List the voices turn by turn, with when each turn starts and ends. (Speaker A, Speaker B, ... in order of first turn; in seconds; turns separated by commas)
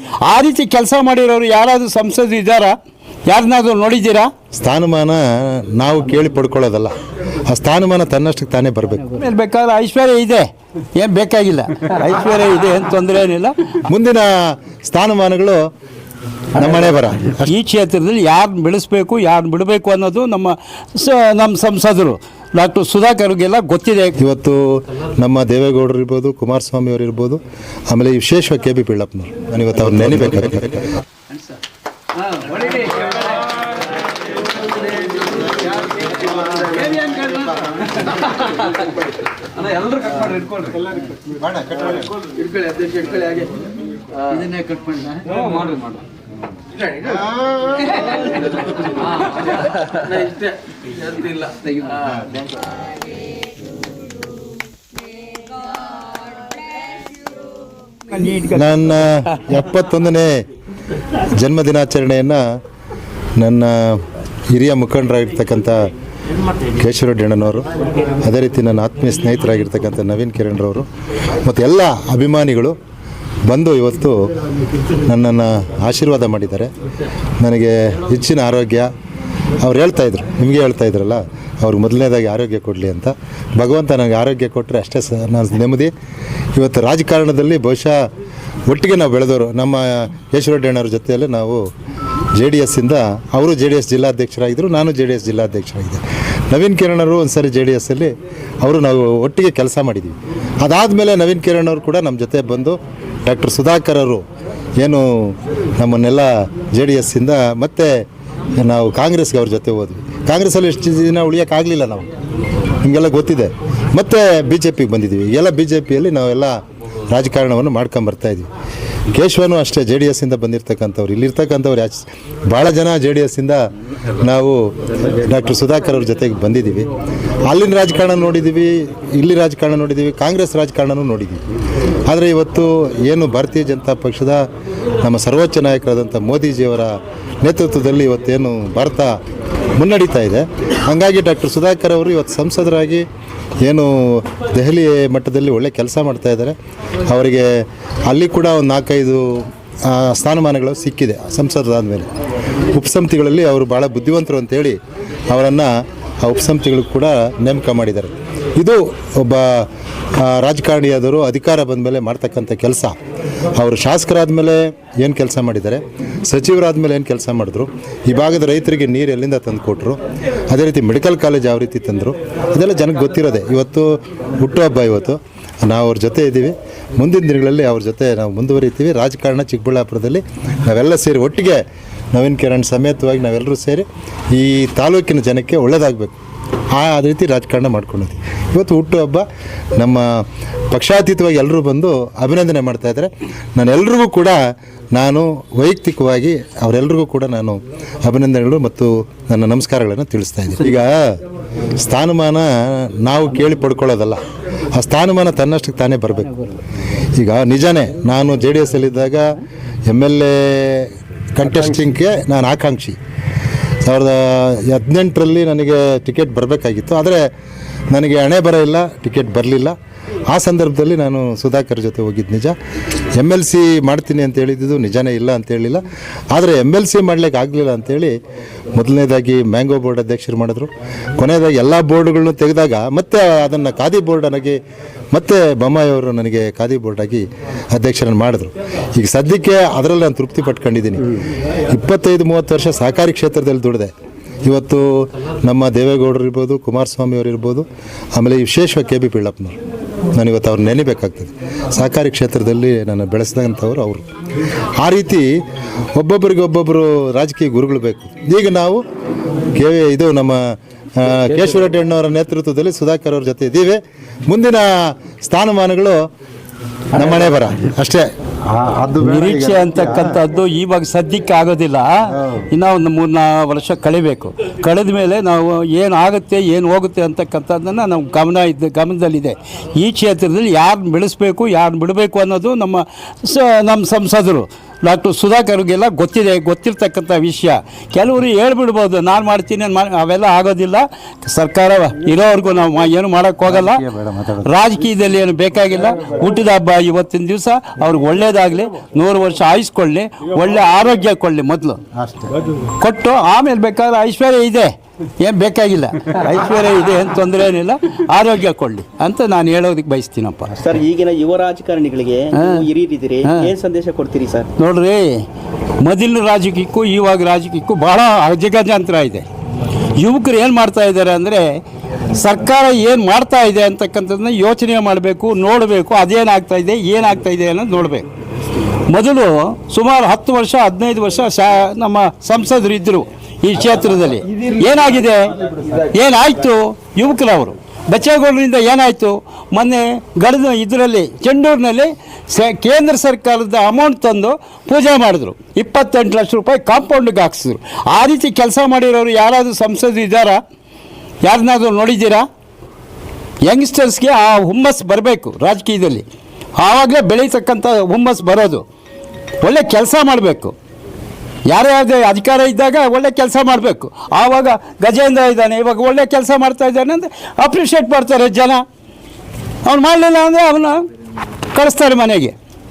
Speaker A: 0.2-2.7, Speaker A: 3.3-4.3, Speaker B: 4.5-6.9, Speaker B: 7.5-9.1, Speaker A: 9.2-13.8, Speaker B: 13.9-15.6, Speaker B: 16.5-17.5, Speaker A: 17.4-24.2, Speaker B: 24.2-30.9, Speaker A: 32.2-33.4, Speaker A: 36.6-37.5, Speaker A: 39.7-40.4, Speaker B: 41.2-42.3, Speaker A: 42.4-43.4, Speaker A: 44.3-46.0, Speaker B: 46.9-47.9, Speaker A: 51.3-51.7, Speaker A: 58.1-58.7, Speaker B: 58.5-60.4, Speaker B: 61.4-62.4, Speaker B: 63.4-65.9, Speaker B: 66.8-67.7, Speaker B: 68.2-70.9, Speaker B: 71.4-72.8, Speaker B: 73.5-74.3, Speaker B: 75.1-76.7, Speaker B: 77.4-78.9, Speaker B: 79.6-85.9, Speaker B: 86.5-88.0, Speaker B: 88.7-91.6, Speaker B: 92.3-104.2, Speaker B: 104.8-108.0, Speaker B: 108.6-112.1, Speaker B: 112.8-116.6, Speaker B: 117.1-118.5, Speaker B: 119.1-123.6, Speaker B: 124.2-126.9, Speaker B: 127.5-131.4, Speaker B: 132.1-134.4, Speaker B: 135.0-139.1, Speaker B: 139.8-143.1, Speaker B: 143.6-146.5, Speaker B: 147.1-152.1, Speaker B: 152.7-154.8, Speaker B: 155.3-163.0, Speaker B: 163.5-186.1, Speaker B: 186.7-189.3, Speaker B: 189.8-201.2, Speaker B: 201.8-204.2, Speaker B: 204.7-206.5, Speaker B: 207.2-213.0, Speaker B: 213.8-217.3, Speaker B: 217.9-219.7, Speaker B: 220.3-222.5, Speaker B: 223.1-228.1, Speaker B: 228.7-234.6, Speaker B: 235.1-243.9, Speaker B: 244.4-249.6, Speaker B: 250.1-254.0, Speaker B: 254.8-255.4, Speaker B: 255.9-258.8, Speaker B: 259.5-266.1, Speaker B: 266.9-270.2, Speaker A: 269.0-293.8, Speaker B: 272.1-272.4, Speaker B: 293.4-294.5, Speaker A: 294.4-301.8, Speaker B: 301.9-302.3, Speaker A: 302.8-310.6, Speaker C: 310.6-314.5, Speaker A: 312.3-312.6, Speaker A: 313.2-313.5, Speaker A: 314.6-315.2, Speaker A: 315.8-319.2, Speaker A: 320.0-321.6, Speaker A: 322.1-328.1, Speaker A: 328.9-350.4, Speaker A: 351.2-352.2, Speaker A: 353.4-356.0, Speaker A: 356.6-358.6, Speaker A: 359.4-360.5, Speaker A: 361.4-368.6, Speaker A: 369.6-370.8, Speaker A: 371.5-372.3